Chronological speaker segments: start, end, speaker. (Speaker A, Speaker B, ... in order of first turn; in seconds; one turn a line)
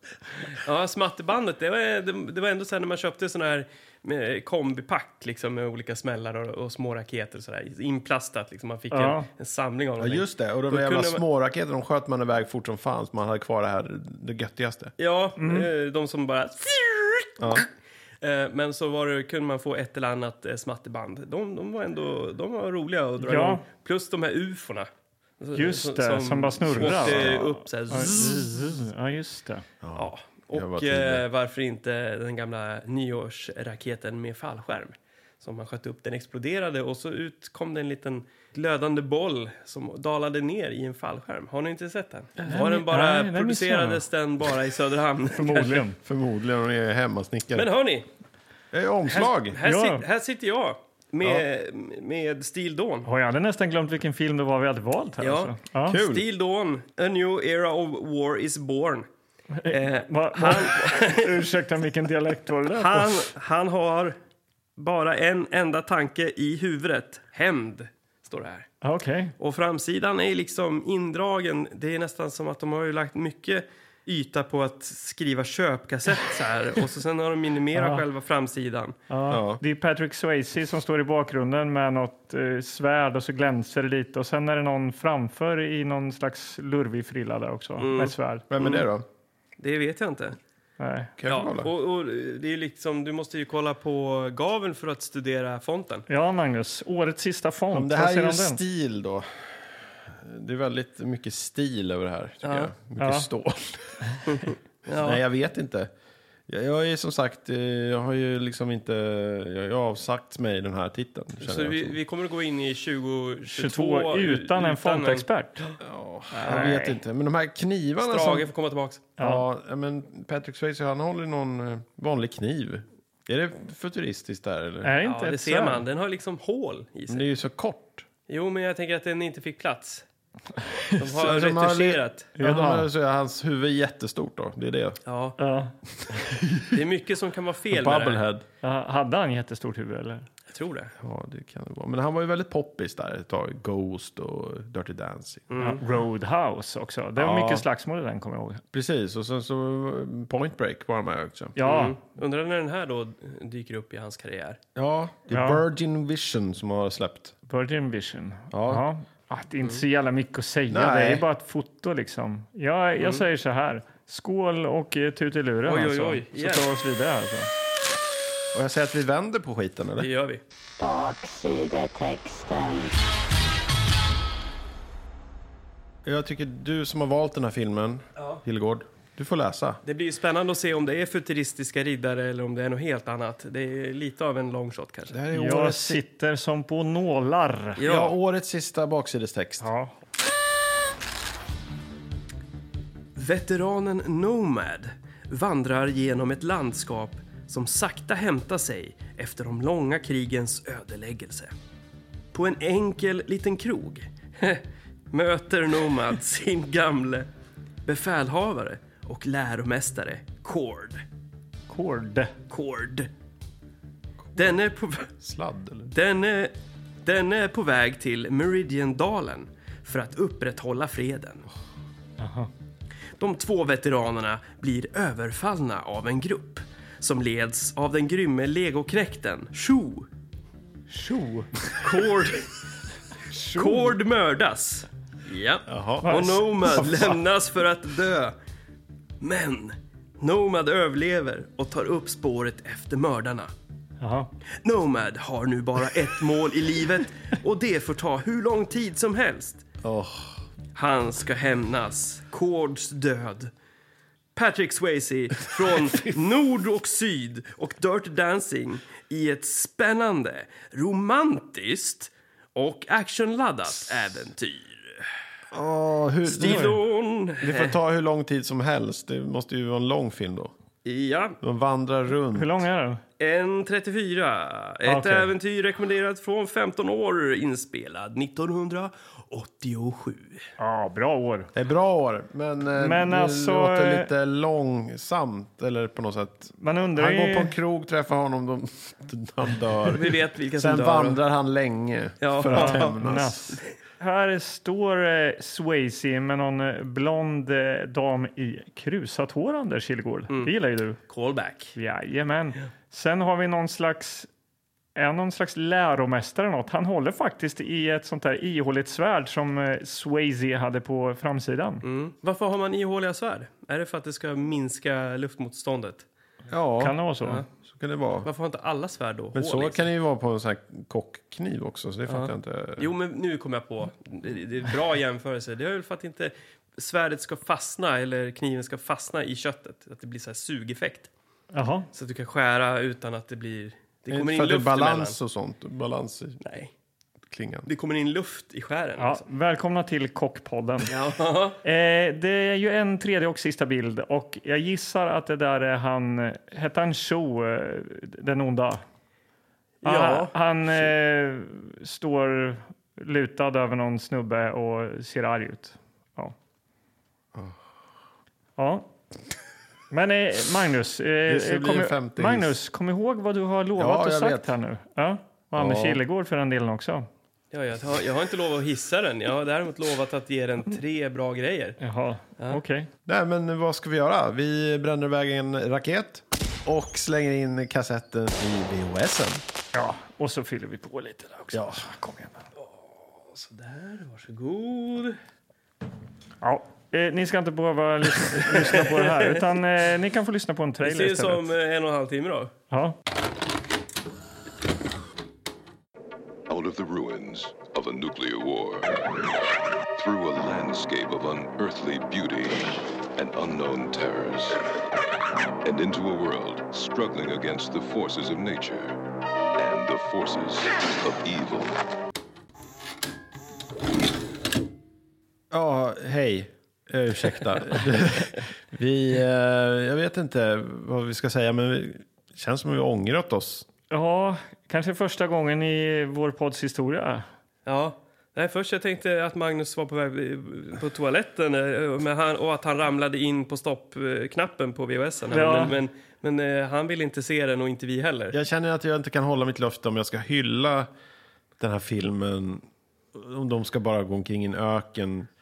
Speaker A: 0.5-11.2
Speaker B: 8.9-9.3
Speaker C: 10.0-14.9
Speaker A: 15.0-17.6
Speaker B: 15.4-15.7
Speaker C: 17.4-17.7
Speaker A: 18.2-24.9
Speaker B: 23.2-23.6
Speaker A: 25.4-28.6
Speaker B: 25.5-29.7
Speaker C: 29.8-31.2
Speaker A: 30.0-45.9
Speaker B: 42.4-44.0
Speaker B: 45.3-46.0
Speaker C: 46.0-47.7
Speaker A: 47.5-48.1
Speaker C: 48.7-49.6
Speaker A: 49.1-53.1
Speaker B: 49.6-50.0
Speaker B: 53.0-56.0
Speaker A: 55.2-59.1
Speaker C: 55.9-56.2
Speaker B: 59.5-63.3
Speaker A: 59.7-61.4
Speaker A: 62.7-64.2
Speaker A: 64.8-68.7
Speaker B: 68.8-69.3
Speaker A: 69.4-79.0
Speaker B: 77.7-78.0
Speaker B: 79.1-88.5
Speaker C: 79.3-79.6
Speaker A: 87.8-88.8
Speaker C: 88.5-89.0
Speaker A: 89.6-90.4
Speaker B: 90.8-91.1
Speaker C: 91.2-91.7
Speaker A: 91.3-96.1
Speaker B: 96.1-98.6
Speaker C: 97.7-104.0
Speaker A: 102.4-102.7
Speaker B: 103.0-103.3
Speaker A: 104.3-105.2
Speaker C: 105.0-105.9
Speaker C: 106.5-112.0
Speaker A: 111.4-115.7
Speaker B: 113.5-115.7
Speaker C: 115.8-118.5
Speaker A: 116.4-116.7
Speaker B: 116.4-117.0
Speaker A: 118.0-119.1
Speaker B: 119.2-119.4
Speaker C: 119.2-124.9
Speaker B: 124.8-125.8
Speaker A: 125.0-127.3
Speaker C: 127.1-128.1
Speaker A: 128.3-130.1
Speaker A: 131.0-132.3
Speaker C: 131.1-135.0
Speaker B: 132.4-132.9
Speaker A: 135.1-135.4
Speaker B: 135.4-136.2
Speaker C: 136.2-136.7
Speaker A: 136.7-138.2
Speaker C: 137.7-138.4
Speaker B: 138.6-140.3
Speaker A: 140.5-140.9
Speaker C: 141.0-145.5
Speaker A: 145.5-145.8
Speaker B: 145.6-148.6
Speaker C: 147.2-147.6
Speaker C: 148.7-151.6
Speaker B: 151.6-152.0
Speaker A: 151.6-154.6
Speaker C: 154.8-157.3
Speaker B: 155.3-155.6
Speaker B: 157.5-167.5
Speaker C: 158.5-158.8
Speaker C: 160.7-161.2
Speaker A: 163.0-163.2
Speaker A: 165.7-166.7
Speaker C: 168.5-170.1
Speaker A: 170.0-170.4
Speaker D: 170.8-172.9
Speaker C: 176.1-179.8
Speaker A: 179.8-185.2
Speaker C: 185.1-186.0
Speaker B: 185.3-187.8
Speaker A: 187.8-188.2
Speaker C: 187.8-189.7
Speaker B: 189.6-189.9
Speaker A: 193.2-201.5
Speaker A: 202.3-207.3
Speaker A: 207.9-211.0
Speaker B: 211.7-212.4
Speaker A: 212.5-213.1
Speaker C: 214.3-214.6
Speaker A: 214.4-215.1
Speaker C: 215.2-215.9
Speaker A: 215.9-216.5
Speaker A: 217.1-221.4
Speaker B: 222.2-222.5
Speaker A: 223.2-230.1
Speaker B: 230.9-231.5
Speaker A: 231.8-232.5
Speaker B: 233.3-233.9
Speaker A: 233.6-238.3
Speaker C: 235.7-236.1
Speaker B: 236.0-237.0
Speaker A: 239.2-243.5
Speaker B: 244.0-244.3
Speaker A: 244.6-249.7
Speaker C: 249.8-250.4
Speaker A: 250.8-253.5
Speaker A: 254.4-265.1
Speaker C: 265.5-266.8
Speaker A: 266.3-267.8
Speaker B: 266.4-266.8
Speaker C: 267.4-270.5
Speaker A: 270.9-271.4
Speaker C: 271.4-272.6
Speaker B: 272.3-273.0
Speaker A: 273.2-280.5
Speaker B: 274.9-275.3
Speaker B: 280.6-281.5
Speaker C: 281.5-293.6
Speaker B: 282.8-284.1
Speaker B: 286.6-287.6
Speaker A: 289.9-291.2
Speaker A: 292.2-292.9
Speaker B: 292.5-301.0
Speaker A: 301.1-301.8
Speaker B: 301.8-304.3
Speaker B: 305.0-311.9
Speaker A: 311.8-316.1
Speaker C: 316.5-317.0
Speaker B: 316.8-317.4
Speaker C: 317.6-318.3
Speaker A: 318.2-319.9
Speaker C: 319.3-322.9
Speaker A: 322.1-331.1
Speaker B: 331.5-331.9
Speaker A: 331.9-335.2
Speaker C: 334.1-336.4
Speaker A: 336.4-336.7
Speaker C: 337.3-337.7
Speaker A: 337.7-339.2
Speaker B: 339.0-340.9
Speaker A: 340.9-341.6
Speaker B: 341.6-348.8
Speaker A: 349.8-350.3
Speaker B: 349.8-356.4
Speaker B: 358.6-358.9
Speaker B: 359.9-367.1
Speaker C: 361.3-362.5
Speaker C: 363.8-364.5
Speaker C: 365.6-366.0
Speaker A: 367.5-371.8
Speaker B: 371.8-372.9
Speaker C: 373.1-379.4
Speaker B: 379.7-382.5
Speaker C: 381.5-381.8
Speaker A: 382.6-385.2
Speaker B: 386.4-391.5
Speaker A: 388.4-389.4
Speaker A: 390.8-392.5
Speaker B: 392.7-393.0
Speaker E: 396.5-399.0
Speaker E: 399.9-404.6
Speaker E: 405.6-409.0
Speaker E: 409.6-411.8
Speaker C: 415.5-423.7
Speaker B: 423.9-427.3
Speaker A: 427.7-438.4
Speaker B: 435.3-435.8
Speaker C: 438.3-440.9
Speaker C: 441.6-445.3